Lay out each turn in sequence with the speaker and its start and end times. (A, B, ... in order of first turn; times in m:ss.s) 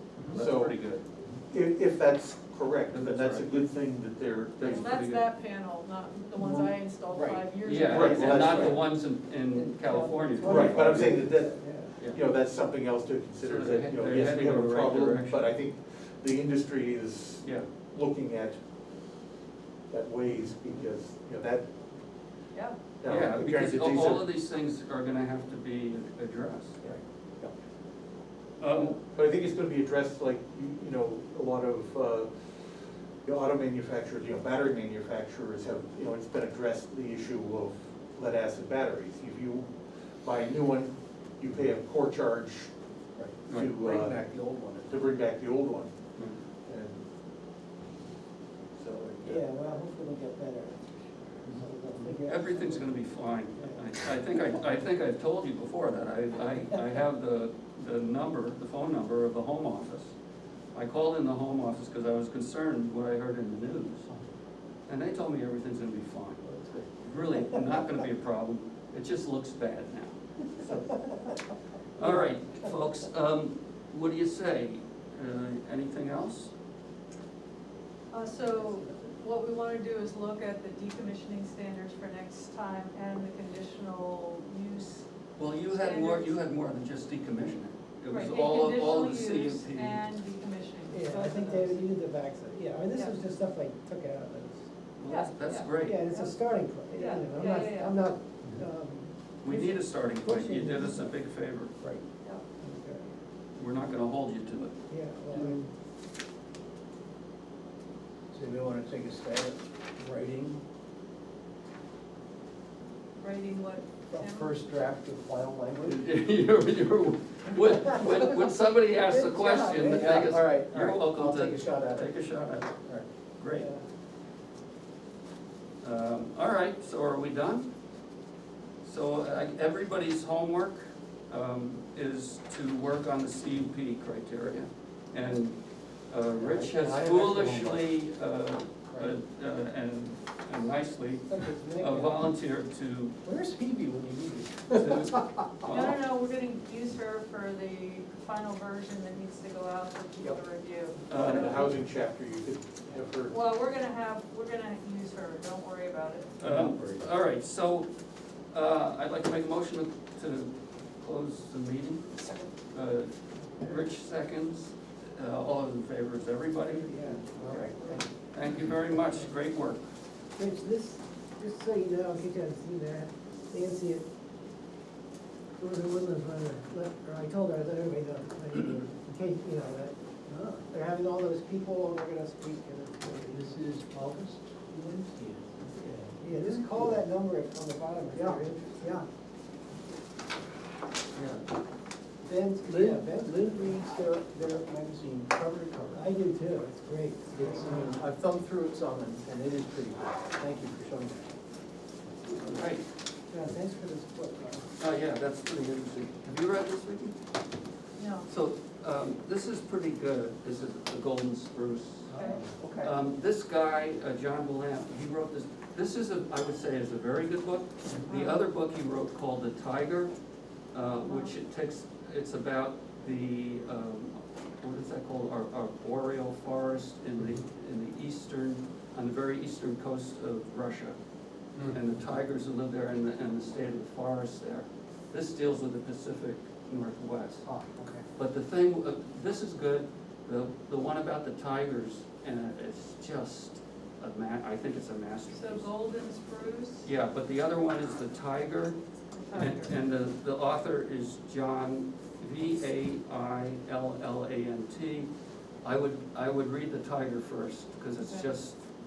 0:00.2-0:01.0 A
0:00.3-0:00.8 B
0:01.5-0:04.9 B
0:02.9-0:03.6 A
0:04.6-0:05.2 A
0:04.6-0:08.8 C
0:06.4-0:07.5 D
0:07.6-0:11.2 A
0:07.8-0:08.8 B
0:09.5-0:11.9 E
0:10.4-0:18.6 B
0:13.4-0:15.5 A
0:19.9-0:21.7 B
0:23.0-0:24.3 B
0:23.0-0:26.8 A
0:26.8-0:27.5 B
0:28.6-0:29.0 A
0:28.8-0:32.3 B
0:33.2-0:39.7 B
0:40.2-0:42.7 B
0:43.2-0:45.0 D
0:43.5-0:43.8 A
0:43.5-0:44.2 B
0:44.9-0:45.9 B
0:46.6-0:47.0 B
0:48.8-0:49.5 B
0:49.2-0:52.9 E
0:52.2-1:00.1 A
0:53.5-0:54.0 E
1:00.7-1:04.1 A
1:04.9-1:06.4 A
1:06.4-1:06.9 D
1:07.0-1:11.0 A
1:12.0-1:16.5 A
1:18.1-1:26.4 C
1:25.4-1:30.1 A
1:28.1-1:31.9 C
1:30.9-1:34.6 E
1:35.0-1:36.0 A
1:35.1-1:36.4 C
1:35.8-1:41.1 E
1:36.9-1:38.0 C
1:39.4-1:41.7 A
1:42.6-1:43.1 E
1:43.5-1:44.7 A
1:44.9-1:45.6 E
1:45.3-1:45.7 D
1:48.3-1:50.3 D
1:50.0-1:50.6 A
1:53.2-1:54.6 C
1:54.1-1:56.0 D
1:55.8-2:02.7 A
1:59.2-2:02.1 D
2:03.4-2:03.7 A
2:03.5-2:03.8 E
2:05.8-2:07.7 A
2:08.8-2:23.2 A
2:16.4-2:17.9 D
2:21.3-2:22.1 E
2:23.2-2:25.9 D
2:24.7-2:25.9 A
2:25.6-2:31.7 C
2:31.1-2:31.7 A
2:31.1-2:33.3 B
2:33.3-2:36.4 C
2:36.4-2:37.9 A
2:36.4-2:37.1 D
2:38.5-2:42.1 A
2:42.7-2:47.7 A
2:46.7-2:47.2 E
2:47.3-2:48.0 D
2:48.3-2:49.8 A
2:50.4-2:54.0 E
2:55.6-3:03.6 E
3:00.3-3:00.6 D
3:03.3-3:07.0 D
3:06.2-3:09.0 E
3:08.1-3:09.0 D
3:11.1-3:11.4 A
3:12.2-3:13.6 E
3:12.6-3:16.0 D
3:15.9-3:17.9 E
3:17.3-3:21.3 D
3:22.2-3:22.8 A
3:23.3-3:24.7 E
3:24.8-3:27.1 A
3:28.0-3:28.3 C
3:28.3-3:40.1 A
3:32.1-3:32.9 D
3:32.1-3:32.4 C
3:38.0-3:38.4 C
3:40.7-3:51.0 A
3:40.9-3:41.3 C
3:51.6-3:57.4 A
3:57.4-3:58.0 D
3:58.2-4:05.7 A
4:05.3-4:06.9 C
4:06.8-4:08.8 A
4:09.1-4:09.8 C
4:09.3-4:15.1 A
4:15.6-4:18.6 A
4:18.0-4:18.4 C